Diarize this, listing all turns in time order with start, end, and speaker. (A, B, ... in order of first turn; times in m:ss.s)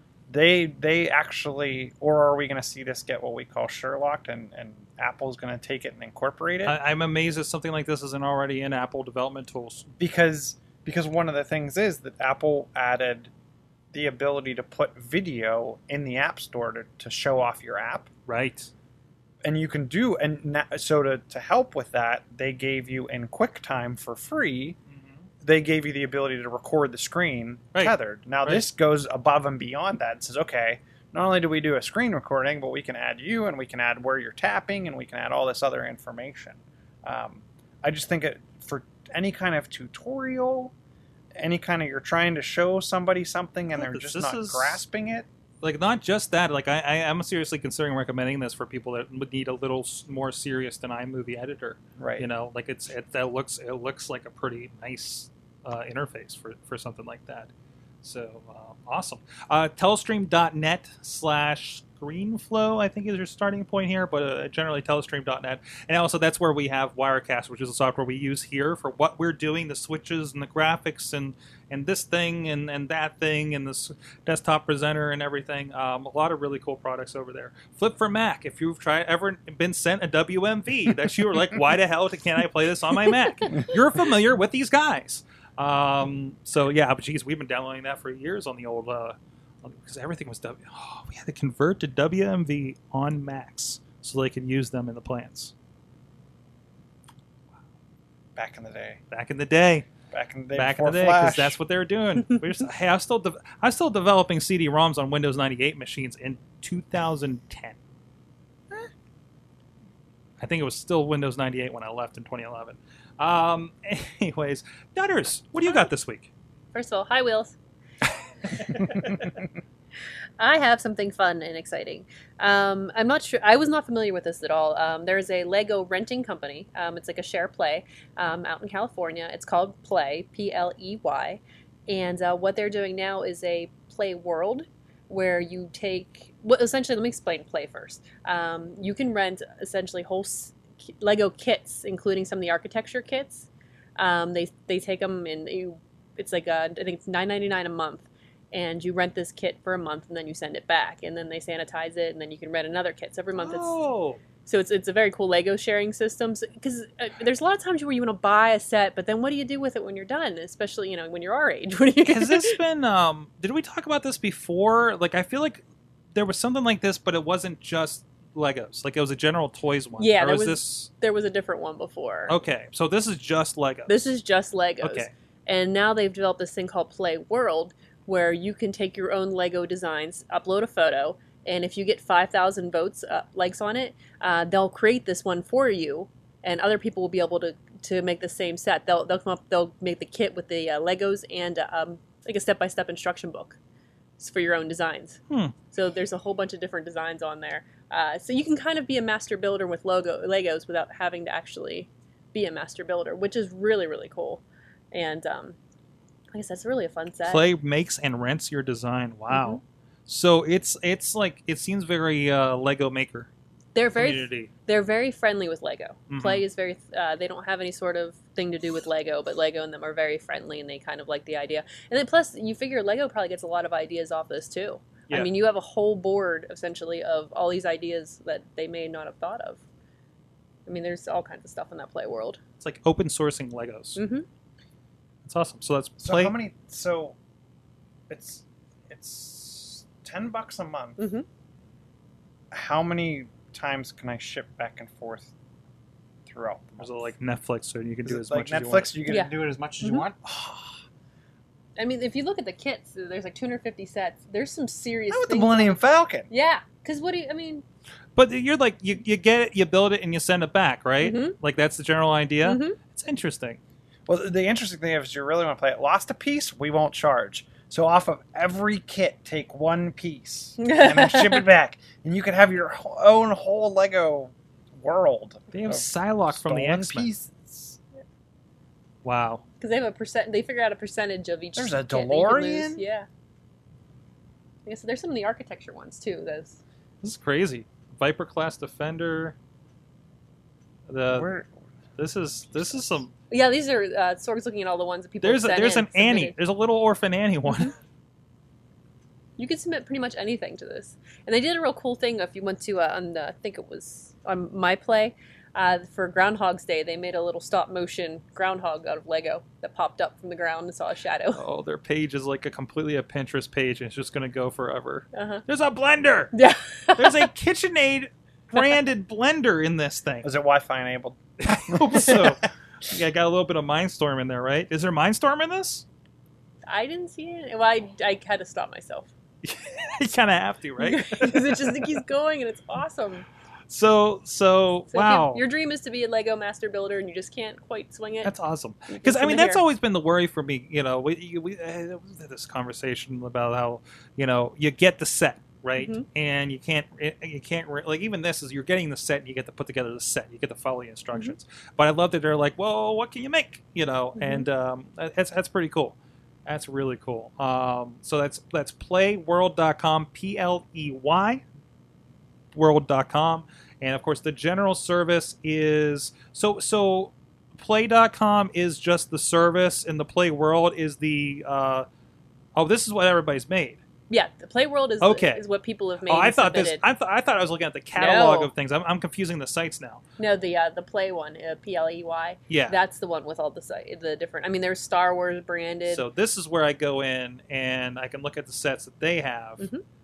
0:00.3-0:06.8 A
0:06.6-0:09.9 B
0:10.0-0:13.3 A
0:13.9-0:18.1 A
0:18.3-0:18.7 B
0:19.4-0:24.8 A
0:25.4-0:40.7 A
0:27.7-0:28.6 B
0:41.4-0:45.3 A
0:43.8-0:44.8 B
0:45.6-0:57.5 B
0:52.0-0:52.3 A
0:58.0-1:35.5 B
1:38.4-1:39.0 A
1:39.1-1:39.9 B
1:40.1-1:41.6 A
1:40.5-1:47.8 B
1:50.4-1:56.3 B
1:55.6-1:55.9 C
1:56.7-1:57.6 C
1:58.5-1:59.4 B
2:00.4-2:33.8 C
2:33.4-2:34.2 B
2:34.5-2:42.6 C
2:42.1-2:50.9 B
2:50.0-2:52.4 C
2:52.3-2:54.0 B
2:53.9-3:13.6 C
2:54.8-2:55.1 B
3:14.2-3:25.6 C
3:15.3-3:15.6 B
3:26.3-3:27.4 C
3:27.2-3:33.3 B
3:29.3-3:29.6 C
3:33.8-3:49.6 C
3:34.0-3:34.5 B
3:36.1-3:36.4 B
3:50.7-3:52.4 C
3:52.6-3:54.0 B
3:54.0-3:54.3 C
3:55.2-3:56.4 B
3:56.0-3:57.2 A
3:58.1-4:01.0 A
4:01.0-4:01.3 C
4:02.5-4:05.3 A
4:06.3-4:07.1 A
4:06.8-4:08.9 B
4:08.0-4:10.8 A
4:09.8-4:10.1 C
4:11.8-4:17.6 C
4:15.1-4:16.3 A
4:18.2-4:23.6 B
4:21.0-4:21.4 C
4:22.4-4:22.8 C
4:24.1-4:37.8 A
4:30.6-4:31.4 C
4:35.5-4:37.1 B
4:39.0-4:39.4 B
4:39.6-4:43.1 C
4:41.6-4:42.8 A
4:44.7-4:46.6 C
4:47.0-4:49.4 B
4:50.9-4:51.4 B
4:51.1-4:51.6 A
4:52.0-4:53.1 B
4:52.6-4:52.9 A
4:53.3-4:56.4 C
4:55.2-4:57.8 B
4:59.4-5:11.4 C
5:11.4-5:16.3 B
5:15.1-5:15.4 C
5:16.3-5:17.3 C
5:17.0-5:20.3 B
5:20.2-5:22.3 A
5:21.4-5:25.8 B
5:26.7-5:29.1 C
5:29.4-5:31.9 B
5:30.8-5:33.3 C
5:33.7-5:35.4 B
5:34.9-5:38.3 C
5:38.2-6:01.4 B
5:38.9-5:39.6 C
5:45.8-5:46.1 C
5:54.2-5:54.5 C
6:02.5-6:11.9 B
6:12.6-6:13.8 B
6:14.1-6:16.8 C
6:15.0-6:15.4 B
6:16.1-6:20.0 B
6:18.0-6:18.5 C
6:20.2-6:26.1 C
6:22.5-6:22.8 B
6:25.9-6:29.7 B